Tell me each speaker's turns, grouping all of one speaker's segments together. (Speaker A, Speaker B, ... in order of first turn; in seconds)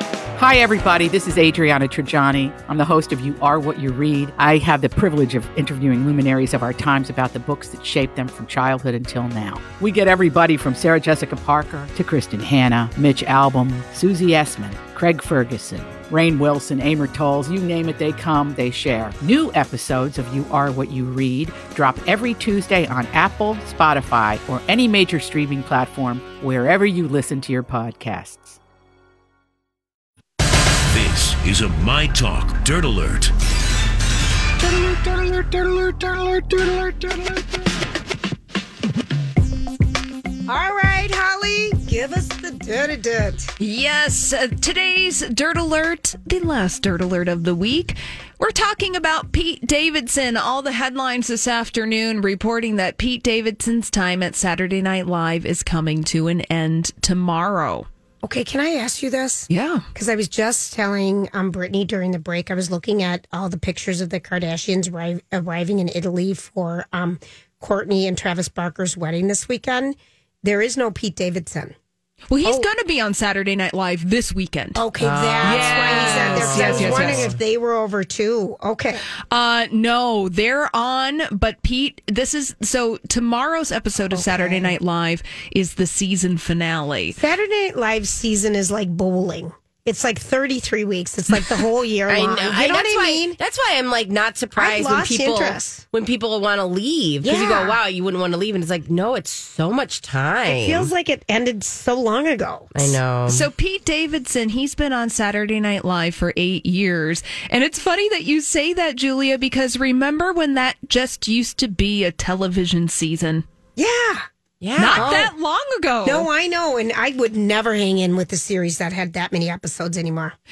Speaker A: 0.4-28.6
Speaker B: 30.9-33.3
Speaker C: 34.6-37.7, 40.5-43.5, 58.2-71.8, 74.8-79.0, 84.1-84.8, 87.2-93.4, 94.6-95.8, 97.2-97.8, 100.5-103.0, 113.8-114.3, 114.9-115.3, 116.0-120.4
Speaker D: 43.6-57.9, 59.5-59.9, 72.3-74.8, 75.4-77.3, 79.3-87.2, 103.3-113.4, 114.8-116.3
Speaker E: 75.0-77.4, 92.1-100.9, 102.8-103.5, 114.6-115.2